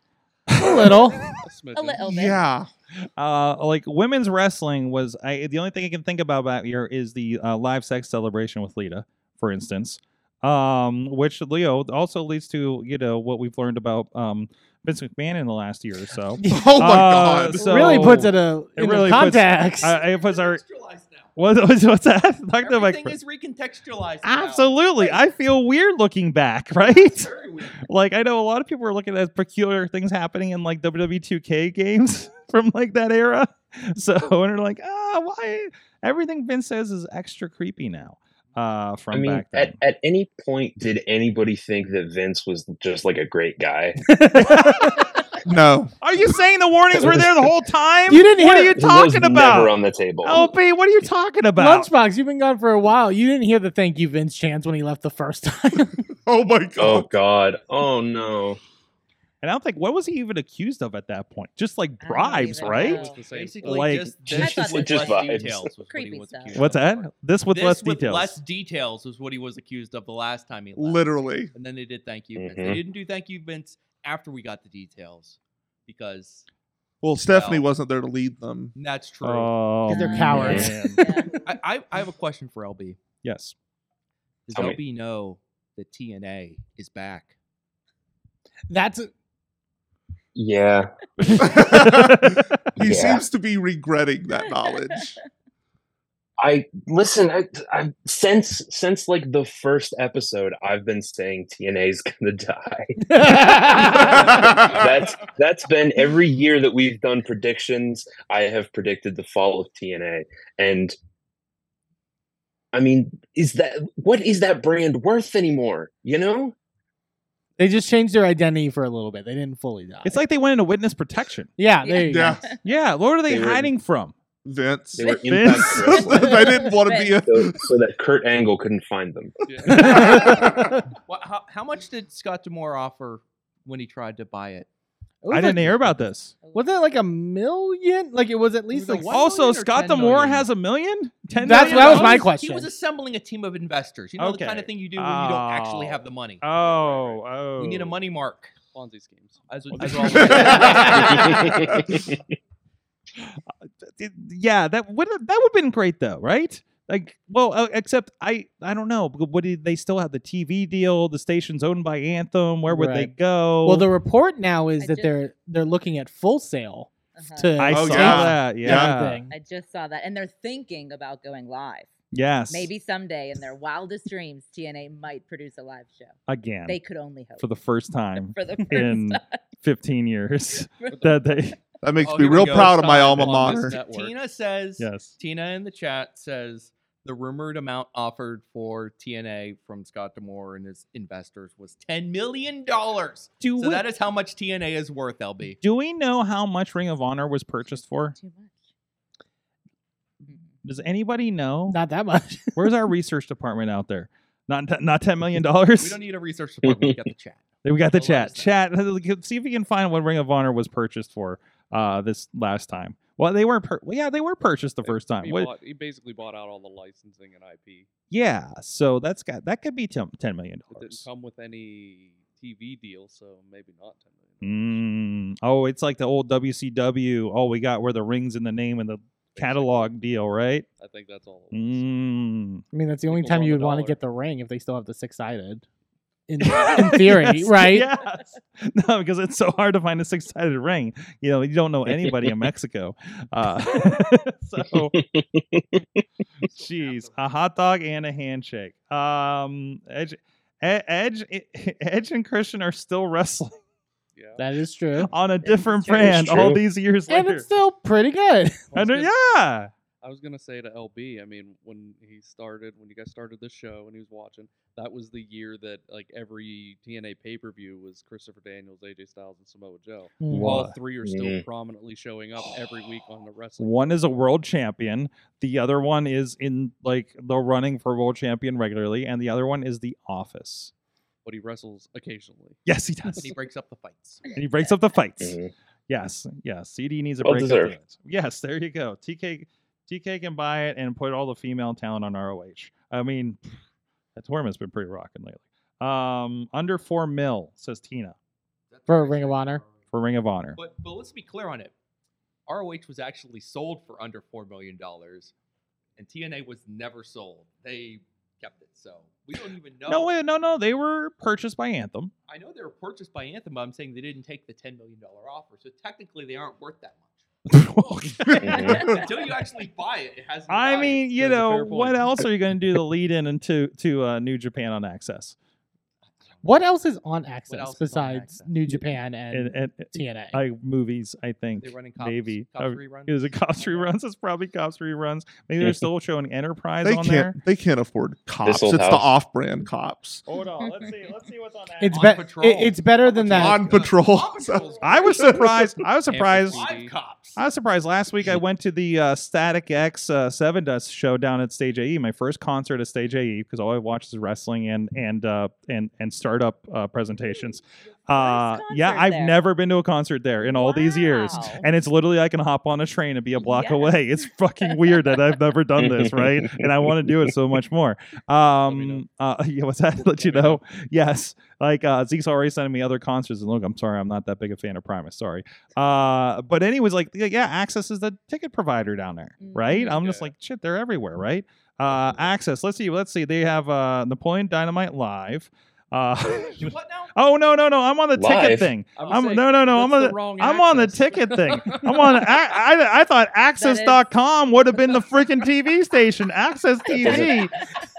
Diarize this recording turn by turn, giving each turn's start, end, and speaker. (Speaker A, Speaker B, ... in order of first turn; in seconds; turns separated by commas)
Speaker A: 0.5-1.0, Speaker B: 0.6-1.2, Speaker C: 1.4-2.3, Speaker D: 1.7-2.5, Speaker E: 2.1-2.7, Speaker A: 3.2-20.6, Speaker B: 16.4-19.9, Speaker E: 16.4-18.2, Speaker F: 19.8-21.3, Speaker A: 21.4-23.1, Speaker F: 22.6-25.2, Speaker A: 24.2-27.3, Speaker F: 26.8-27.9, Speaker A: 27.8-39.7, Speaker G: 39.1-44.0, Speaker B: 44.1-45.0, Speaker A: 44.3-45.0, Speaker E: 45.4-45.9, Speaker A: 46.0-51.9, Speaker G: 46.9-47.5, Speaker B: 48.1-48.8, Speaker G: 48.7-50.5, Speaker B: 51.5-56.0, Speaker E: 56.3-57.1, Speaker G: 56.8-58.6, Speaker A: 59.4-63.0, Speaker D: 62.0-63.2, Speaker F: 62.6-76.5, Speaker C: 62.6-63.9, Speaker A: 63.6-64.3, Speaker D: 64.3-66.6, Speaker G: 64.3-65.7, Speaker A: 66.5-68.4, Speaker E: 70.8-71.5, Speaker G: 72.3-72.8, Speaker E: 77.0-78.7, Speaker F: 77.2-77.6, Speaker F: 78.7-79.6, Speaker A: 79.2-81.0, Speaker B: 79.9-80.9, Speaker D: 79.9-81.4, Speaker G: 80.3-80.7, Speaker F: 81.4-83.0, Speaker A: 83.2-83.5, Speaker F: 84.5-87.3, Speaker G: 84.5-84.8, Speaker B: 88.7-89.1, Speaker G: 90.3-90.9, Speaker A: 91.2-92.5, Speaker E: 91.4-95.2, Speaker G: 92.8-93.2, Speaker D: 94.5-95.1, Speaker G: 96.4-111.0, Speaker B: 103.1-104.4, Speaker E: 104.3-104.7, Speaker G: 112.7-116.5, Speaker B: 117.6-120.2, Speaker A: 120.0-121.5, Speaker B: 121.6-122.4, Speaker D: 121.8-122.6, Speaker E: 122.0-122.4, Speaker A: 122.6-124.1, Speaker G: 123.3-123.7, Speaker E: 124.4-127.7, Speaker G: 125.0-126.5, Speaker D: 125.0-127.3, Speaker A: 125.2-126.1, Speaker G: 127.2-129.8, Speaker C: 129.4-130.0, Speaker B: 129.7-130.8, Speaker F: 130.0-130.4, Speaker E: 130.1-130.6, Speaker F: 131.1-134.7, Speaker B: 135.2-135.9, Speaker A: 135.3-136.3, Speaker D: 136.4-136.8, Speaker B: 136.5-139.2, Speaker F: 138.7-140.5, Speaker A: 138.9-142.3, Speaker B: 141.3-142.7, Speaker F: 141.4-146.5, Speaker A: 144.2-148.0, Speaker C: 146.5-147.2, Speaker F: 147.5-148.5, Speaker C: 148.7-150.1, Speaker F: 149.5-151.5, Speaker A: 149.7-151.1, Speaker E: 150.2-151.8, Speaker G: 151.0-152.2, Speaker A: 153.9-163.9, Speaker B: 162.7-163.1, Speaker B: 163.6-169.3, Speaker D: 164.8-165.1, Speaker D: 167.2-167.6, Speaker A: 167.6-169.2, Speaker E: 167.7-168.9, Speaker D: 169.3-171.9, Speaker A: 172.1-172.7, Speaker D: 172.5-176.1, Speaker A: 176.3-176.8, Speaker D: 176.7-177.5, Speaker A: 177.4-181.6, Speaker D: 178.2-179.4, Speaker D: 180.8-181.1, Speaker C: 180.9-181.2, Speaker E: 181.8-183.8, Speaker F: 182.0-195.6, Speaker C: 182.5-184.1, Speaker A: 184.8-185.2, Speaker A: 193.4-193.8, Speaker A: 195.6-198.2, Speaker D: 197.7-198.6, Speaker A: 200.6-201.8, Speaker B: 201.7-202.6, Speaker A: 202.6-206.0, Speaker F: 205.8-208.6, Speaker G: 206.6-206.9, Speaker A: 207.6-215.5, Speaker C: 214.8-217.9, Speaker A: 218.1-221.0, Speaker C: 220.7-224.8, Speaker A: 224.4-230.7, Speaker C: 229.3-229.9, Speaker C: 230.8-231.8, Speaker A: 231.5-232.6, Speaker B: 232.7-235.6, Speaker C: 233.1-234.0, Speaker B: 236.3-237.9, Speaker A: 236.4-244.9, Speaker G: 241.9-242.5, Speaker G: 244.8-245.8, Speaker F: 246.5-247.2, Speaker A: 246.6-253.5, Speaker C: 254.1-254.4, Speaker B: 254.4-255.1, Speaker A: 255.0-257.4, Speaker G: 255.4-256.6, Speaker B: 257.1-258.7, Speaker C: 258.7-259.1, Speaker A: 258.7-259.7, Speaker C: 260.0-274.0, Speaker A: 270.2-270.7, Speaker G: 270.3-271.4, Speaker A: 273.6-280.7, Speaker C: 281.2-282.6, Speaker A: 282.6-283.3, Speaker F: 283.1-284.3, Speaker D: 284.3-284.7, Speaker A: 284.3-285.4, Speaker G: 285.2-285.5, Speaker A: 285.9-293.4, Speaker G: 287.2-287.7, Speaker A: 294.1-298.1, Speaker F: 298.7-299.8, Speaker B: 298.9-299.6, Speaker A: 299.9-300.6, Speaker F: 300.6-301.7, Speaker F: 302.5-305.3, Speaker F: 306.0-310.2, Speaker A: 309.9-312.1, Speaker F: 312.3-317.2, Speaker A: 317.5-319.0, Speaker G: 318.4-318.9, Speaker F: 318.5-321.9, Speaker A: 320.5-325.4, Speaker C: 321.2-322.0, Speaker B: 326.4-330.4, Speaker F: 327.5-328.6, Speaker A: 329.3-337.4, Speaker F: 331.6-333.9, Speaker E: 336.8-340.2, Speaker G: 338.4-339.1, Speaker A: 340.3-342.1, Speaker D: 340.6-340.9, Speaker B: 341.8-343.6, Speaker F: 341.9-345.5, Speaker E: 343.3-345.7, Speaker A: 344.8-346.6, Speaker C: 346.1-346.9, Speaker F: 346.3-347.4, Speaker A: 347.4-397.5, Speaker D: 358.1-359.4, Speaker D: 360.4-361.6, Speaker D: 363.4-364.1, Speaker D: 364.6-365.1, Speaker G: 365.8-367.3, Speaker C: 368.6-369.0, Speaker C: 370.0-370.6, Speaker D: 379.4-380.0, Speaker C: 379.7-380.3, Speaker F: 386.3-387.1, Speaker G: 388.1-388.7, Speaker F: 388.9-389.4, Speaker C: 388.9-392.3, Speaker D: 393.6-394.0, Speaker G: 397.0-397.3